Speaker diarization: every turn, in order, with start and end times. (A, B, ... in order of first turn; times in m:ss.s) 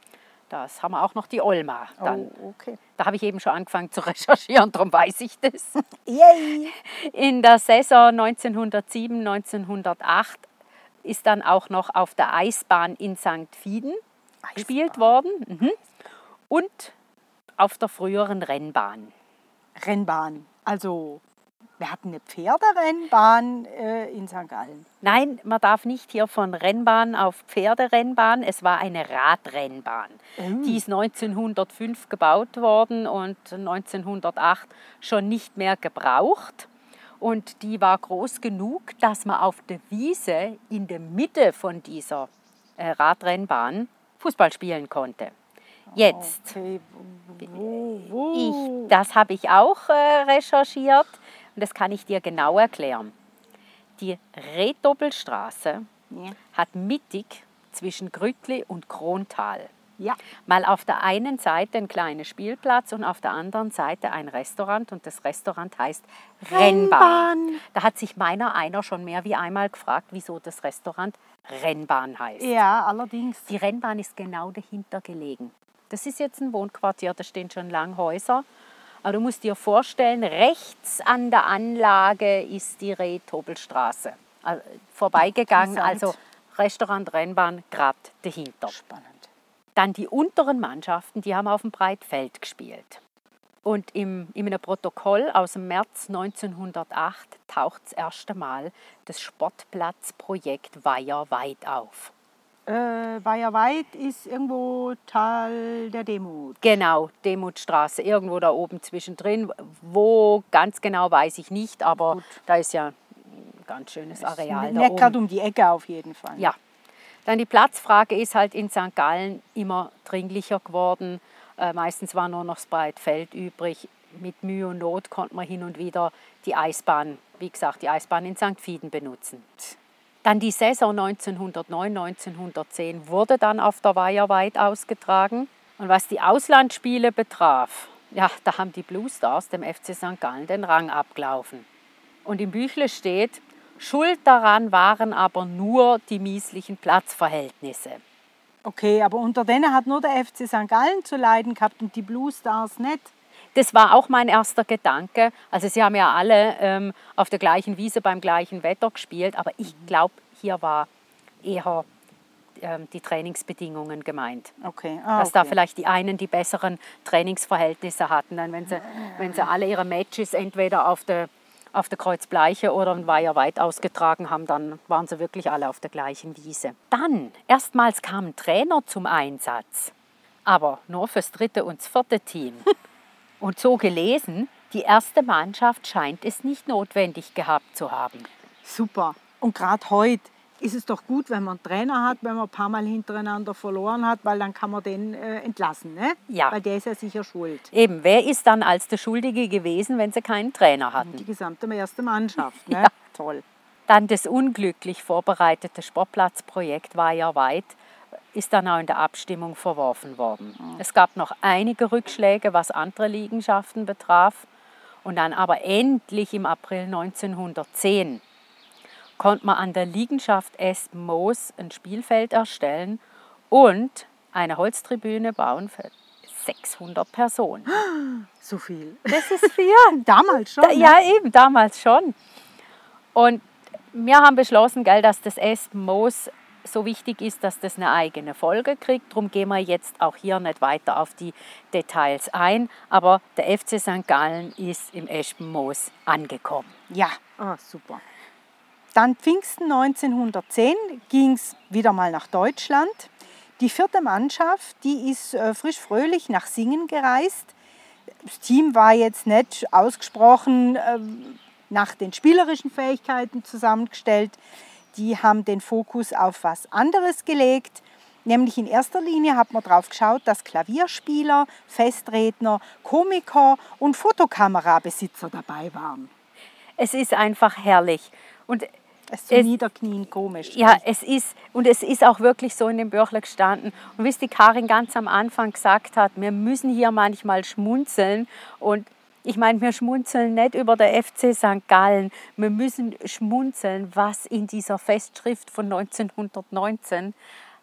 0:00.5-0:02.3 A
0:02.0-0:02.8 B
0:03.0-0:05.9 A
0:06.0-0:06.7 B
0:06.8-0:10.5 A
0:11.0-0:14.0 A
0:14.4-0:15.1 B
0:14.6-0:15.8 A
0:16.5-0:16.9 A
0:17.6-0:19.1 A
0:19.8-0:21.2 B
0:21.8-0:24.9 B
0:25.0-0:36.7 A
0:30.4-0:30.8 B
0:37.2-0:45.3 A
0:45.9-0:48.9 B
0:45.9-0:46.5 A
0:48.3-0:53.1 A
0:54.0-0:55.9 A
0:56.1-0:56.4 B
0:56.5-0:59.7 A
1:00.4-1:12.5 A
1:06.5-1:07.6 B
1:12.4-1:13.5 B
1:13.5-1:18.4 A
1:19.0-1:28.7 A
1:25.5-1:26.2 B
1:28.7-1:29.3 B
1:29.8-1:33.0 A
1:33.6-1:42.1 A
1:42.7-1:46.6 B
1:46.6-1:55.2 A
1:52.0-1:52.4 B
1:54.2-1:56.5 B
1:57.2-2:09.5 A
2:10.2-2:21.7 A
2:22.2-2:28.0 A
2:28.6-2:33.1 B
2:33.5-2:40.9 A
2:41.4-2:41.8 A
2:42.6-2:44.5 A
2:44.6-2:45.6 B
2:45.2-2:59.9 A
2:48.9-2:49.4 B
3:00.4-3:02.7 A
3:03.4-3:08.3 A
3:08.6-3:17.7 B
3:16.3-3:16.6 A
3:17.7-3:21.2 A
3:21.0-3:23.4 B
3:23.9-3:27.8 A
3:28.3-3:34.5 A
3:35.0-3:38.2 A
3:39.2-3:47.8 A
3:47.7-3:51.0 B
3:49.1-3:50.0 A
3:50.6-3:52.1 A
3:53.1-4:06.7 A
4:06.9-4:08.0 B
4:08.9-4:17.5 B
4:18.2-4:24.4 B
4:24.9-4:36.1 B
4:36.8-4:38.7 A
4:39.1-4:40.8 B
4:40.5-4:57.1 A